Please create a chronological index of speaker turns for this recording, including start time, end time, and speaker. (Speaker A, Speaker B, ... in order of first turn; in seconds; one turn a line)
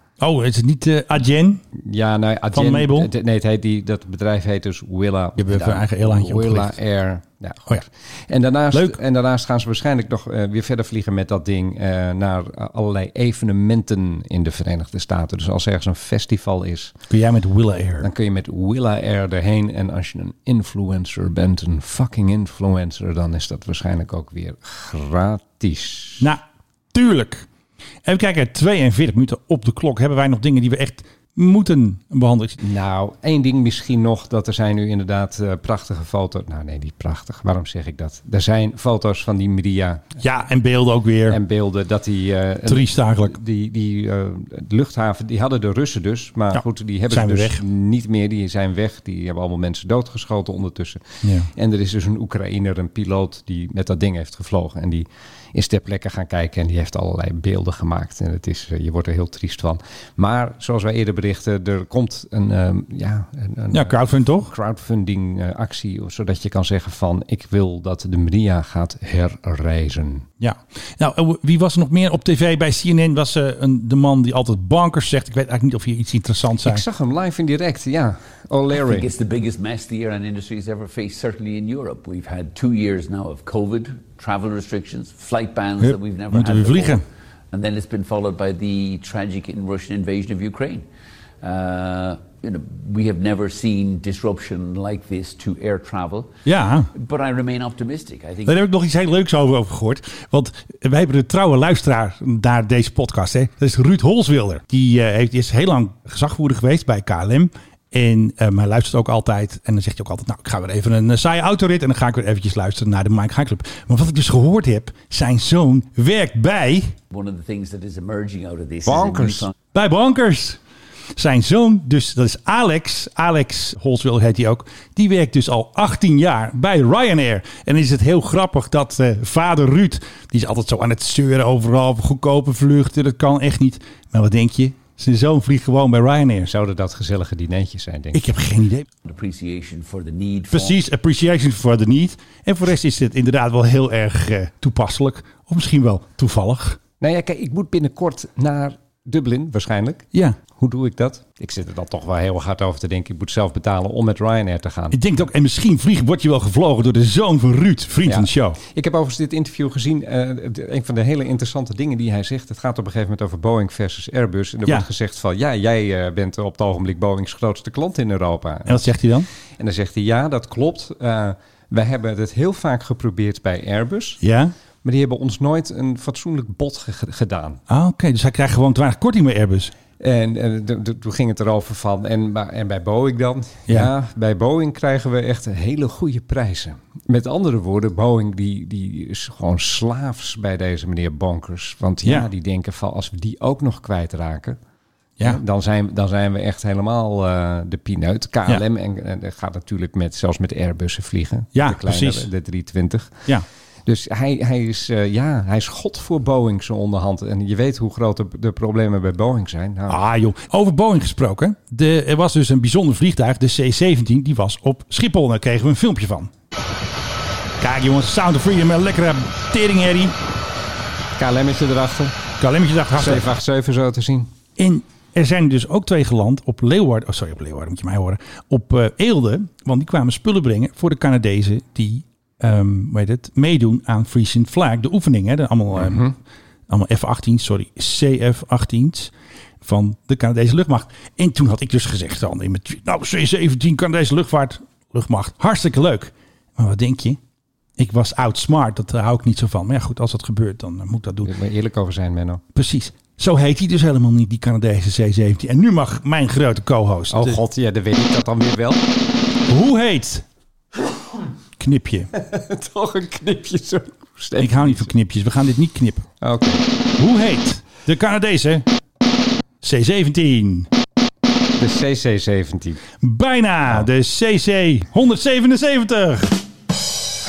Speaker A: 0.2-1.6
Speaker B: 1.7-16.9
Speaker A: 2.5-3.1
Speaker A: 5.4-6.8
Speaker A: 8.7-9.0
Speaker A: 17.1-18.1
Speaker B: 18.0-26.3
Speaker A: 26.9-27.5
Speaker A: 28.1-32.6
Speaker B: 32.6-40.2
Speaker A: 40.2-41.4
Speaker B: 41.3-70.3
Speaker A: 42.7-43.4
Speaker A: 46.5-47.6
Speaker A: 51.2-51.5
Speaker A: 63.7-64.5
Speaker A: 70.4-76.8
Speaker B: 76.6-79.1
Speaker C: 78.7-90.9
Speaker A: 85.8-87.0
Speaker C: 91.4-96.3
Speaker A: 96.5-96.9
Speaker C: 96.9-98.6
Speaker A: 98.5-117.0
Speaker C: 117.1-119.5
Speaker B: 118.8-119.5
Speaker A: 119.7-120.6
Speaker A: 121.2-136.5
Speaker B: 136.4-138.2
Speaker A: 138.1-138.9
Speaker C: 139.0-140.8
Speaker A: 140.5-146.8
Speaker B: 147.0-150.1
Speaker B: 150.6-155.0
Speaker A: 154.9-158.6
Speaker B: 158.1-169.0
Speaker A: 168.7-169.3
Speaker B: 169.6-174.2
Speaker A: 174.2-174.5
Speaker B: 174.8-177.6
Speaker A: 177.7-179.7
Speaker B: 180.0-194.6
Speaker B: 195.2-203.3
Speaker A: 201.5-202.3
Speaker B: 203.9-210.0
Speaker A: 209.9-216.3
Speaker A: 217.6-220.2
Speaker B: 221.2-222.2
Speaker A: 222.4-223.2
Speaker B: 223.0-224.3
Speaker A: 224.6-236.1
Speaker B: 235.7-236.2
Speaker A: 236.7-247.2
Speaker A: 247.8-251.3
Speaker B: 251.2-252.4
Speaker A: 252.5-257.4
Speaker B: 257.1-258.8
Speaker A: 259.5-260.2
Speaker A: 261.6-262.1
Speaker B: 262.1-264.9
Speaker A: 264.4-266.1
Speaker B: 266.2-266.6
Speaker A: 267.0-268.6
Speaker A: 269.6-270.7
Speaker B: 271.6-272.8
Speaker A: 273.0-276.4